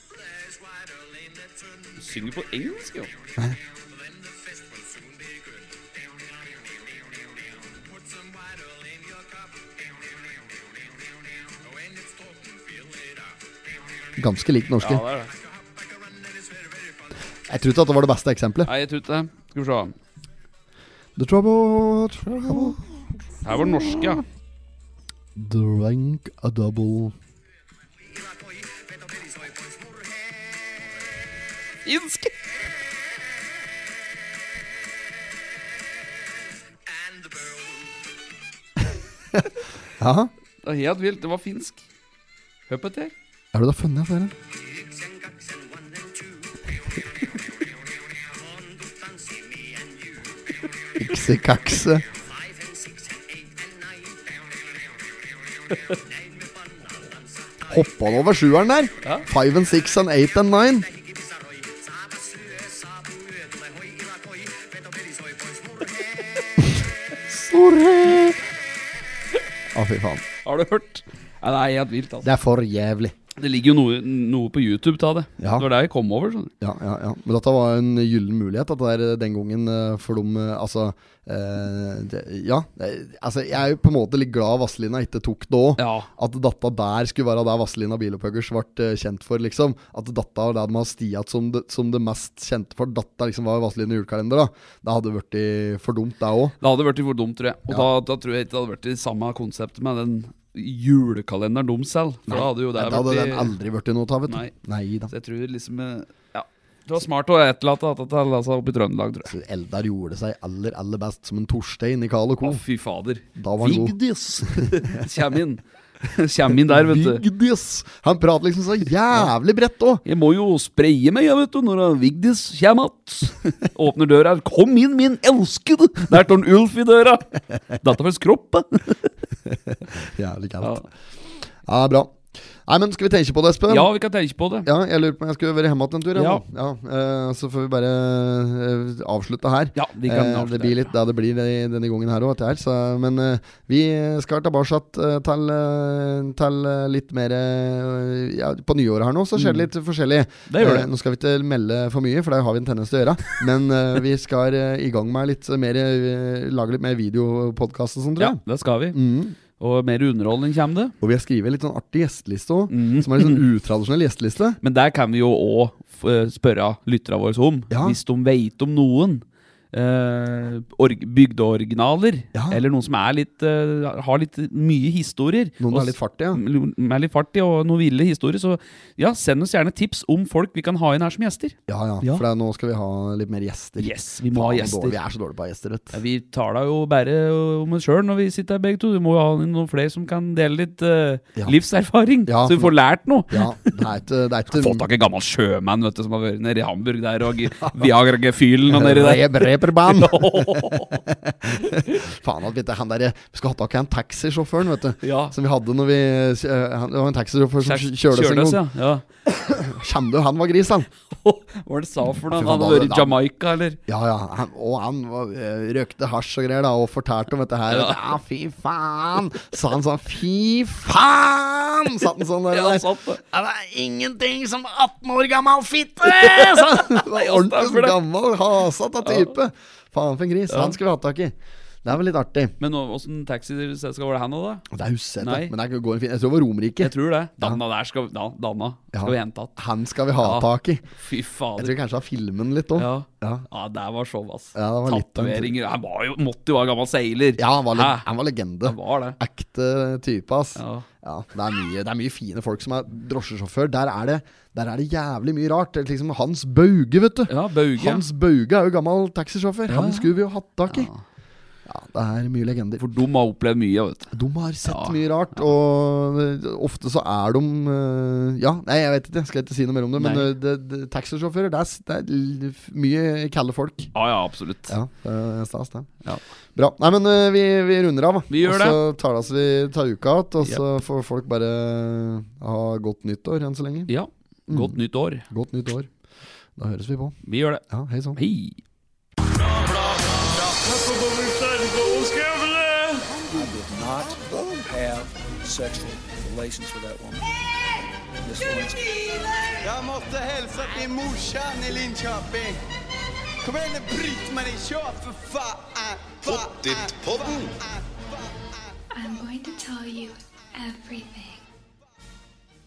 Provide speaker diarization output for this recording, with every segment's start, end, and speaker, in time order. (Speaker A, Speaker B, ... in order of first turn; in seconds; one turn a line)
Speaker A: 2.0-3.1
Speaker B: 14.2-15.0
Speaker A: 14.8-15.3
Speaker B: 17.5-18.7
Speaker A: 18.6-19.9
Speaker B: 21.2-22.8
Speaker A: 22.2-22.8
Speaker A: 23.4-24.2
Speaker B: 23.6-24.2
Speaker B: 25.4-27.1
Speaker A: 31.8-32.3
Speaker B: 40.0-40.3
Speaker A: 40.6-41.9
Speaker A: 42.7-43.1
Speaker B: 43.5-44.3
Speaker B: 51.0-52.0
Speaker B: 57.6-60.9
Speaker B: 66.6-68.4
Speaker B: 69.7-70.2
Speaker A: 70.4-72.3
Speaker B: 72.2-73.1
Speaker A: 73.3-76.5
Speaker B: 75.4-75.7
Speaker B: 76.6-96.5
Speaker A: 85.8-86.1
Speaker A: 96.6-103.5
Speaker B: 102.3-105.1
Speaker A: 104.3-104.5
Speaker A: 105.1-109.3
Speaker B: 109.2-112.6
Speaker A: 112.4-117.2
Speaker B: 113.3-115.1
Speaker B: 116.6-120.0
Speaker A: 120.0-129.1
Speaker B: 129.5-130.9
Speaker B: 131.7-133.9
Speaker A: 133.7-134.7
Speaker B: 134.6-158.4
Speaker A: 136.1-136.4
Speaker A: 139.7-140.9
Speaker A: 149.3-149.7
Speaker A: 150.5-150.9
Speaker A: 158.2-159.0
Speaker B: 158.9-159.3
Speaker A: 159.6-160.9
Speaker B: 161.0-164.6
Speaker A: 162.7-163.4
Speaker A: 164.6-182.2
Speaker B: 167.7-168.0
Speaker B: 172.3-172.6
Speaker B: 175.6-176.4
Speaker B: 181.7-186.0
Speaker A: 183.8-185.0
Speaker A: 185.9-193.8
Speaker B: 192.2-192.7
Speaker B: 193.3-194.8
Speaker A: 194.5-201.0
Speaker B: 197.6-197.9
Speaker B: 198.7-208.6
Speaker A: 201.6-202.0
Speaker A: 205.0-205.3
Speaker A: 207.6-209.1
Speaker B: 209.5-210.9
Speaker A: 211.1-213.8
Speaker B: 212.3-213.2
Speaker B: 213.9-232.5
Speaker A: 217.7-218.0
Speaker A: 222.5-223.2
Speaker A: 226.0-228.0
Speaker A: 229.0-229.3
Speaker A: 230.5-230.8
Speaker A: 232.6-234.7
Speaker B: 234.7-237.6
Speaker A: 235.2-235.5
Speaker A: 236.8-239.6
Speaker B: 238.9-240.8
Speaker A: 240.2-241.8
Speaker B: 241.6-243.4
Speaker A: 242.8-248.1
Speaker B: 244.5-245.5
Speaker B: 247.4-260.9
Speaker A: 248.6-249.2
Speaker A: 250.6-250.8
Speaker A: 257.3-258.0
Speaker A: 259.7-260.1
Speaker A: 260.7-261.0
Speaker B: 261.6-262.8
Speaker A: 262.8-264.1
Speaker B: 264.1-273.9
Speaker A: 264.6-265.0
Speaker A: 270.0-270.3
Speaker A: 273.9-274.7
Speaker B: 274.7-275.9
Speaker B: 276.5-283.9
Speaker A: 278.3-278.8
Speaker A: 283.9-285.2
Speaker B: 284.5-285.9
Speaker B: 286.6-287.1
Speaker A: 287.2-287.6
Speaker B: 287.7-288.2
Speaker A: 288.1-288.6
Speaker C: 289.2-297.2
Speaker B: 293.1-294.7
Speaker C: 298.2-299.6
Speaker D: 299.6-302.6
Speaker D: 303.4-308.6
Speaker E: 308.9-311.4